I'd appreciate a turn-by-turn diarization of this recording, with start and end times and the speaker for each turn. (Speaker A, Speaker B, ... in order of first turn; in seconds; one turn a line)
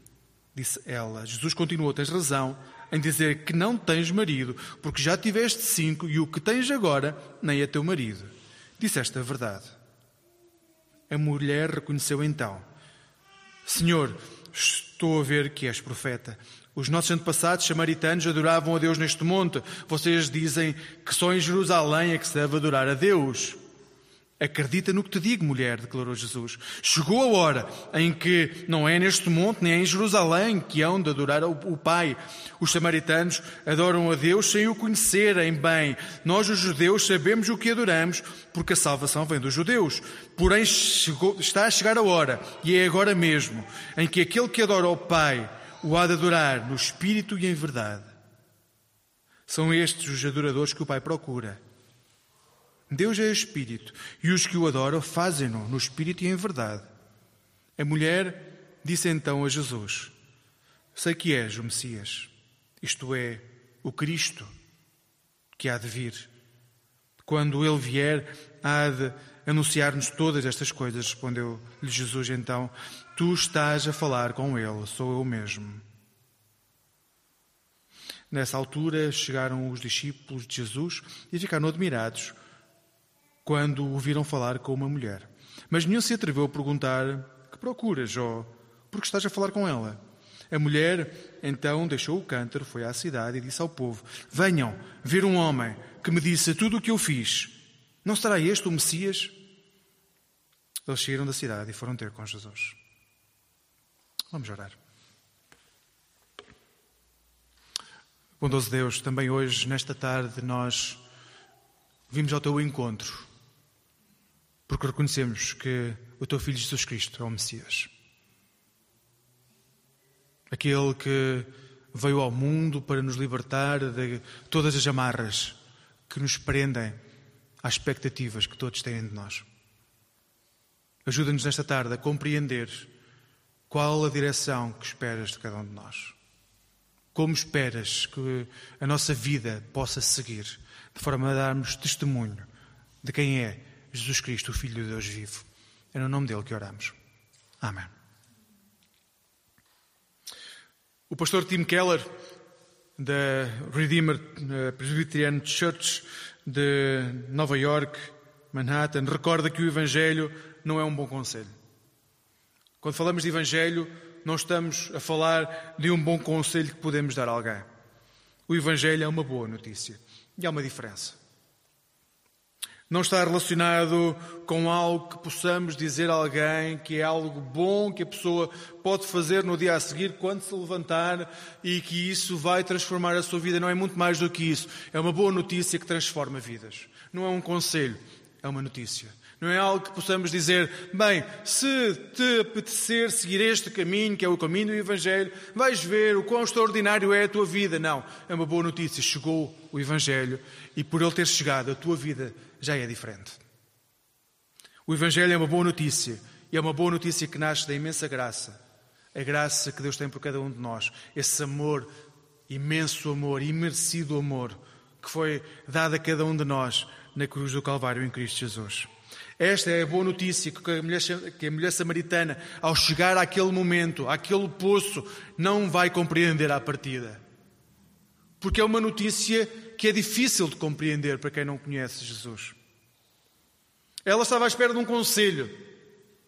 Speaker A: 0.5-9.8
Speaker A: 11.1-12.7
Speaker A: 13.6-23.6
Speaker A: 24.4-48.1
Speaker A: 49.5-51.6
Speaker A: 52.9-56.9
Speaker A: 57.8-60.1
Speaker A: 60.9-62.3
Speaker A: 62.8-64.5
Speaker A: 65.6-66.3
Speaker A: 67.2-75.8
Speaker A: 78.3-82.3
Speaker A: 83.4-90.0
Speaker A: 90.5-99.3
Speaker A: 100.8-102.8
Speaker A: 104.3-104.8
Speaker A: 108.4-111.0
Speaker A: 112.1-113.3
Speaker A: 114.7-117.9
Speaker A: 120.5-125.6
Speaker A: 126.1-127.0
Speaker A: 127.6-129.4
Speaker A: 131.0-132.9
Speaker A: 133.7-136.2
Speaker A: 137.1-142.5
Speaker A: 143.0-146.9
Speaker A: 147.6-147.9
Speaker A: 151.1-152.1
Speaker A: 153.0-161.5
Speaker A: 162.8-167.7
Speaker A: 168.5-171.2
Speaker A: 172.9-203.4
Speaker A: 204.8-208.6
Speaker A: 209.1-211.9
Speaker A: 212.5-227.2
Speaker A: 228.4-232.6
Speaker A: 234.1-235.7